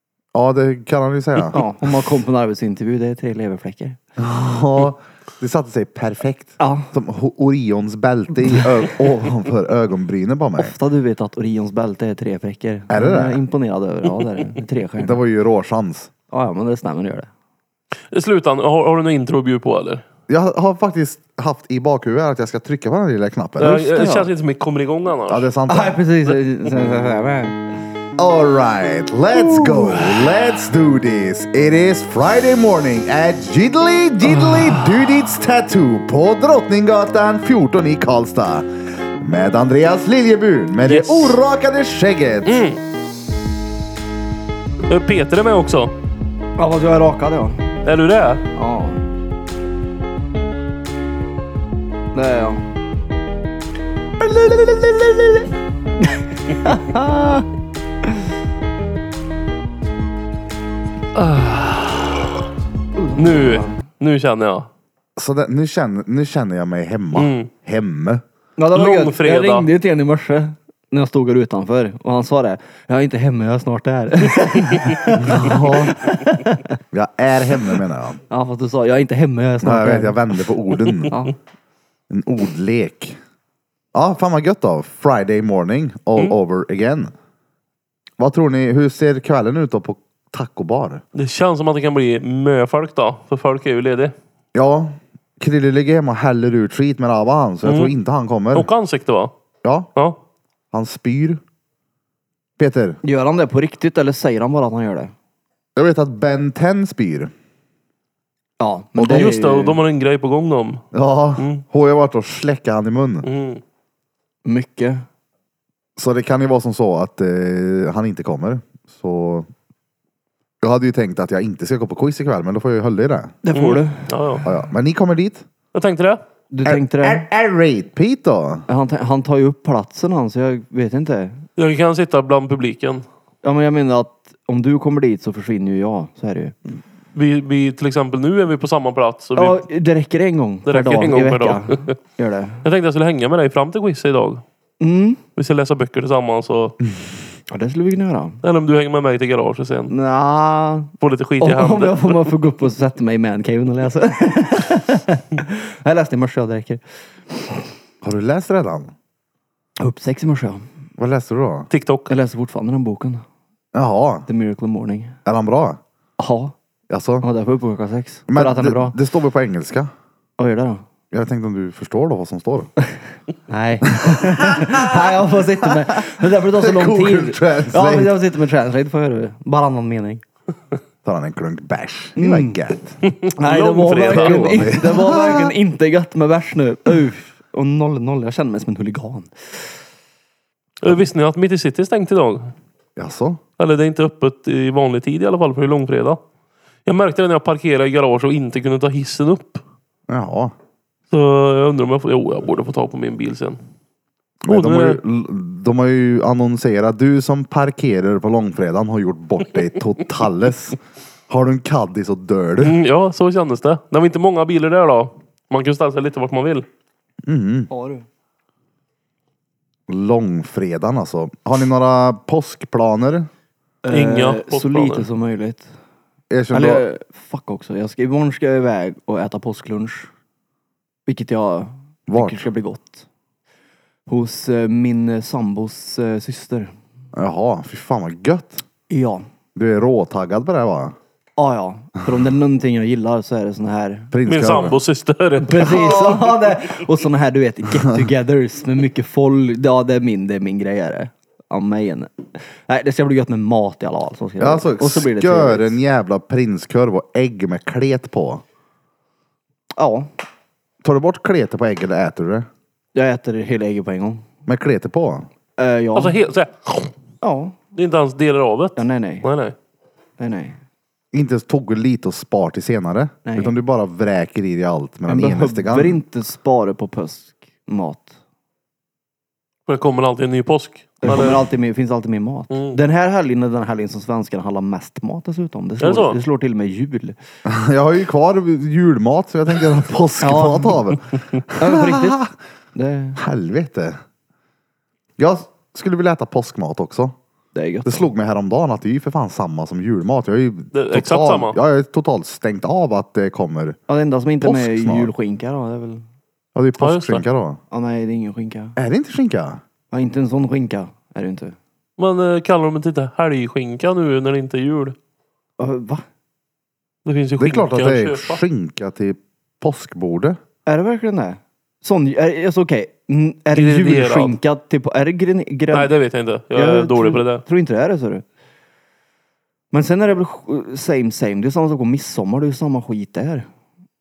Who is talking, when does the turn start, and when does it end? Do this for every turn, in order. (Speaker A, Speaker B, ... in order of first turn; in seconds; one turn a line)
Speaker A: 0.3-1.6
Speaker B: 1.5-4.0
Speaker A: 4.2-10.8
Speaker B: 6.6-6.9
Speaker B: 10.6-15.2
Speaker A: 12.9-13.4
Speaker A: 15.0-16.1
Speaker B: 16.3-17.3
Speaker C: 18.1-20.0
Speaker A: 20.3-24.1
Speaker C: 23.6-25.5
Speaker B: 23.9-24.3
Speaker A: 25.3-26.0
Speaker B: 25.7-27.6
Speaker A: 28.2-42.6
Speaker C: 29.4-30.3
Speaker C: 34.4-35.0
Speaker B: 40.9-41.4
Speaker C: 42.5-42.8
Speaker C: 44.9-45.9
Speaker B: 46.6-47.7
Speaker C: 47.9-48.4
Speaker B: 48.5-49.0
Speaker B: 52.1-52.7
Speaker B: 54.2-55.4
Speaker B: 56.5-57.5
Speaker C: 61.1-62.3
Speaker B: 63.0-63.8
Speaker C: 63.2-64.7
Speaker A: 65.2-68.2
Speaker C: 67.1-67.5
Speaker B: 68.6-76.6
Speaker C: 68.7-69.7
Speaker A: 75.2-76.0
Speaker A: 76.9-78.2
Speaker B: 78.3-80.2
Speaker A: 79.6-81.2
Speaker B: 81.1-81.3
Speaker A: 82.1-83.2
Speaker A: 83.9-87.1
Speaker A: 88.2-91.0
Speaker C: 91.2-94.1
Speaker A: 94.5-98.7
Speaker C: 97.6-97.9
Speaker C: 98.5-99.3
Speaker A: 99.6-99.9
Speaker A: 100.7-101.4
Speaker A: 102.6-103.0
Speaker B: 103.0-105.1
Speaker A: 105.8-107.3
Speaker B: 108.6-109.8
Speaker A: 109.0-109.3
Speaker C: 109.1-110.8
Speaker A: 110.9-113.3
Speaker C: 111.4-111.6
Speaker C: 113.2-113.6
Speaker B: 114.5-115.0
Speaker A: 116.0-119.5
Speaker A: 120.6-123.4
Speaker B: 123.4-124.2
Speaker C: 123.5-124.5
Speaker A: 124.4-125.5
Speaker C: 125.7-126.2
Speaker B: 126.5-127.3
Speaker A: 126.7-128.6
Speaker B: 128.7-131.4
Speaker C: 131.6-133.1
Speaker B: 133.4-136.8
Speaker C: 137.2-139.6
Speaker B: 139.4-142.7
Speaker C: 140.7-142.0
Speaker C: 142.6-144.4
Speaker B: 144.8-145.2
Speaker C: 145.4-146.8
Speaker B: 147.5-148.4
Speaker C: 148.4-149.9
Speaker B: 149.9-157.7
Speaker C: 151.0-152.3
Speaker A: 158.0-158.9
Speaker B: 159.8-160.6
Speaker A: 161.0-161.7
Speaker C: 161.7-162.1
Speaker B: 162.1-163.2
Speaker A: 163.7-164.3
Speaker B: 164.3-165.2
Speaker A: 165.3-165.8
Speaker B: 166.2-166.6
Speaker A: 166.9-167.3
Speaker B: 167.2-169.0
Speaker A: 168.3-169.9
Speaker B: 170.4-170.8
Speaker A: 171.1-172.7
Speaker B: 173.5-180.2
Speaker A: 174.0-175.2
Speaker A: 175.8-178.2
Speaker A: 181.1-183.0
Speaker B: 182.2-182.6
Speaker C: 183.0-184.7
Speaker B: 183.4-189.3
Speaker A: 184.1-185.5
Speaker C: 190.8-192.5
Speaker A: 193.0-193.4
Speaker C: 193.6-196.2
Speaker C: 196.9-199.6
Speaker A: 200.1-200.5
Speaker C: 201.1-203.6
Speaker A: 204.4-210.8
Speaker C: 204.5-205.0
Speaker A: 211.3-212.8
Speaker C: 212.6-216.7
Speaker A: 217.3-217.7
Speaker B: 217.7-218.1
Speaker A: 219.9-223.3
Speaker B: 223.8-225.7
Speaker C: 223.9-225.1
Speaker A: 226.3-226.9
Speaker B: 226.5-230.1
Speaker B: 231.1-233.1
Speaker A: 232.1-232.5
Speaker B: 234.1-236.7
Speaker A: 237.2-238.6
Speaker B: 238.9-239.2
Speaker A: 239.6-240.9
Speaker B: 241.4-244.1
Speaker A: 244.1-244.8
Speaker C: 244.3-246.0
Speaker B: 245.4-255.8
Speaker A: 245.8-246.2
Speaker A: 254.4-258.4
Speaker B: 259.8-260.1
Speaker A: 260.8-262.5
Speaker B: 262.9-264.2
Speaker A: 264.5-265.3
Speaker B: 265.6-266.2
Speaker C: 265.9-266.9
Speaker B: 267.2-267.6
Speaker C: 267.8-269.6
Speaker B: 268.8-269.3
Speaker B: 270.2-270.6
Speaker A: 271.1-276.0
Speaker B: 273.2-273.6
Speaker B: 275.1-278.1
Speaker C: 279.7-281.4
Speaker B: 281.0-287.2
Speaker C: 282.5-282.8
Speaker C: 285.8-286.2
Speaker A: 287.5-292.2
Speaker B: 290.2-290.9
Speaker B: 291.6-292.2
Speaker B: 292.8-293.2
Speaker A: 293.2-294.0
Speaker A: 295.2-297.2
Speaker B: 297.5-298.1
Speaker A: 297.9-303.8
Speaker C: 300.7-301.6
Speaker B: 303.9-306.1
Speaker A: 304.4-305.1
Speaker A: 306.6-307.6
Speaker C: 306.8-307.3
Speaker B: 307.7-308.8
Speaker A: 308.8-309.6
Speaker B: 309.9-311.6
Speaker C: 312.0-314.9
Speaker B: 315.6-316.0
Speaker C: 317.1-318.4
Speaker A: 317.4-320.4
Speaker B: 320.7-325.9
Speaker C: 323.5-324.4
Speaker C: 325.7-327.4
Speaker B: 326.5-328.2
Speaker B: 329.7-333.5